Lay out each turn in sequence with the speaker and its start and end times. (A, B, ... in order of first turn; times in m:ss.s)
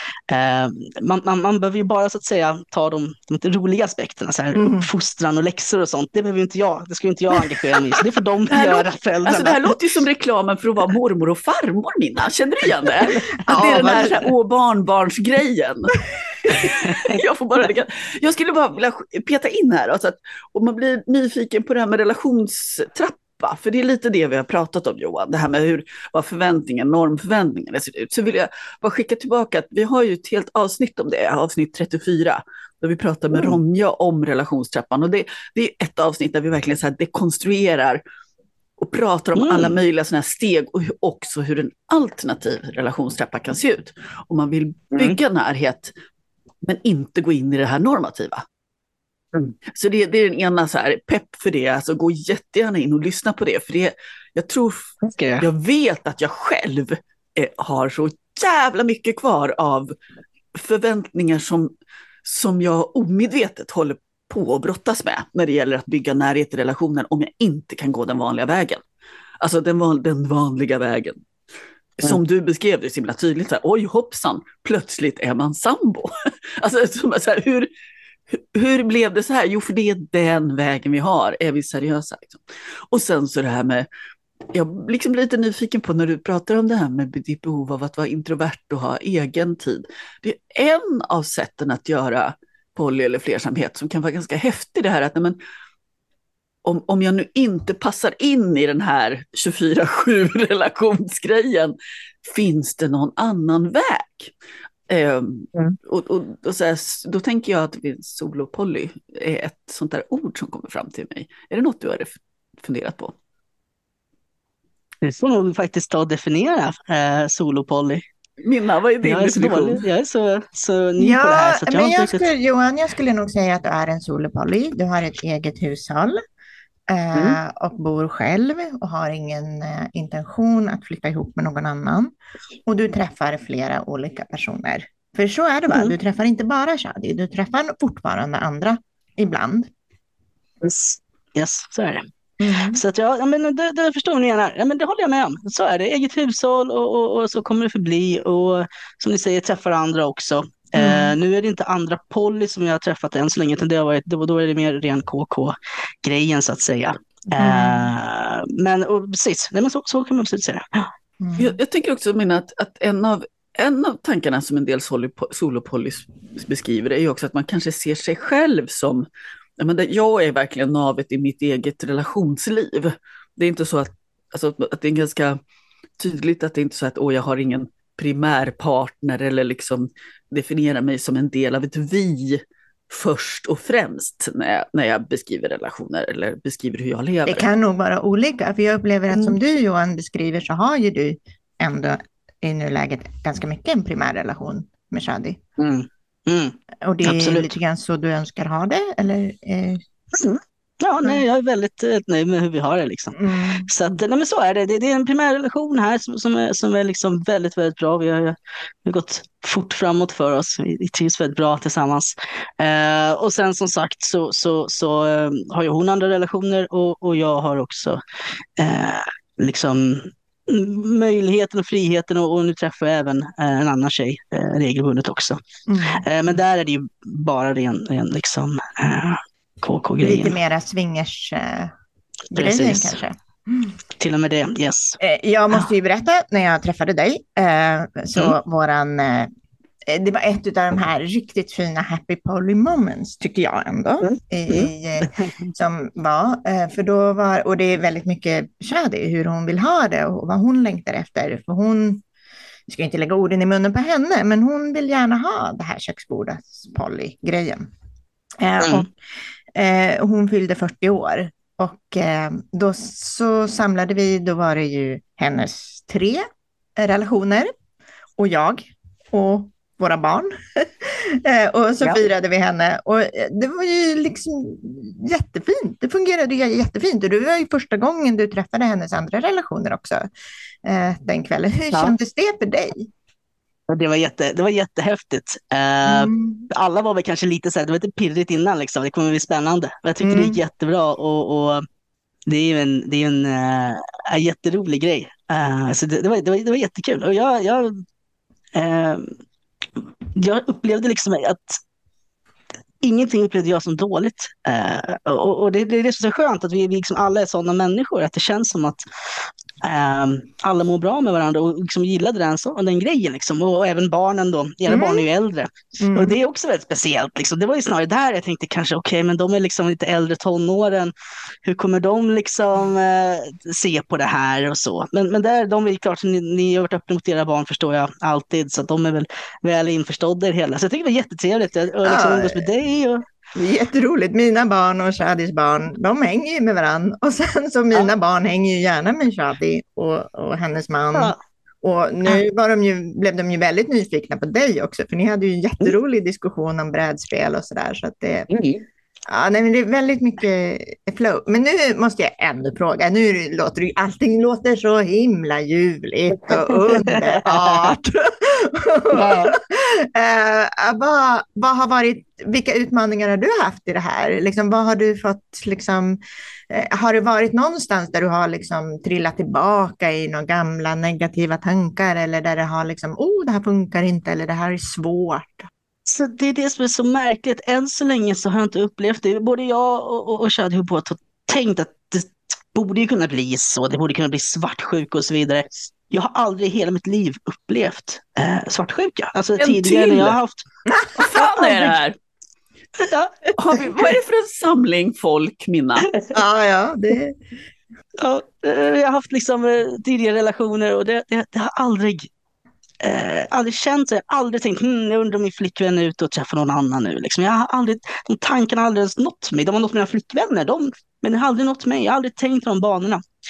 0:00.3-0:09.8 A
0:04.6-0:04.9 B
0:08.5-0:38.0 C
0:13.4-0:14.2 B
0:16.7-0:17.0 A
0:33.3-0:33.6 A
0:38.8-0:45.9 C
0:39.4-0:39.8 A
0:44.9-0:45.2 A
0:46.6-0:48.4 C
0:49.7-1:00.0 C
0:55.0-0:55.5 A
1:00.6-1:01.7 C
1:02.2-1:08.8 C
1:09.4-1:11.2 C
1:12.0-1:17.7 C
1:18.3-1:23.9 C
1:24.5-1:35.4 C
1:36.6-1:44.3 C
1:44.9-1:53.2 C
1:55.0-1:58.0 A
1:58.4-1:59.8 C
1:59.0-2:02.3 A
2:01.0-2:06.2 B
2:06.9-2:12.1 B
2:12.7-2:19.7 B
2:20.6-2:22.0 A
2:22.4-2:22.8 B
2:22.7-2:40.9 A
2:30.8-2:31.2 B
2:37.4-2:37.9 B
2:41.2-2:41.6 B
2:41.4-2:49.1 C
2:49.6-2:55.4 C
2:56.0-3:07.5 C
3:07.3-3:15.4 B
3:15.6-3:17.5 A
3:16.8-3:19.8 B
3:20.1-3:38.0 A
3:23.2-3:23.7 B
3:38.6-3:45.4 A
3:45.7-3:46.0 B
3:45.9-3:50.4 A
3:50.0-3:51.7 B
3:52.3-3:53.7 B
3:52.4-3:53.0 A
3:54.0-3:55.0 A
3:55.0-3:59.3 B
3:59.9-4:12.0 B
4:04.0-4:05.5 A
4:12.7-4:17.7 B
4:18.4-4:18.9 B
4:18.6-4:18.9 A
4:19.6-4:26.3 B
4:26.8-4:27.5 B
4:28.2-4:40.1 B
4:40.6-4:42.9 B
4:43.7-4:51.6 A
4:45.9-4:46.5 B
4:50.0-4:50.4 B
4:52.3-4:57.8 A
4:58.6-4:59.2 A
4:59.8-5:01.6 A
5:02.8-5:20.9 A
5:14.7-5:15.1 B
5:15.8-5:16.2 B
5:21.4-5:33.0 A
5:31.8-5:32.5 B
5:33.4-5:48.3 B
5:48.3-5:48.6 A
5:49.1-6:06.0 B
5:56.3-5:57.7 A
5:58.9-5:59.4 A
6:06.5-6:15.5 B
6:15.9-6:30.4 A
6:29.4-6:30.1 C
6:30.7-6:31.7 B
6:31.0-6:32.0 C
6:32.8-6:33.2 A
6:33.4-6:35.9 C
6:36.1-6:37.2 B
6:38.0-6:42.1 A
6:42.8-6:53.0 A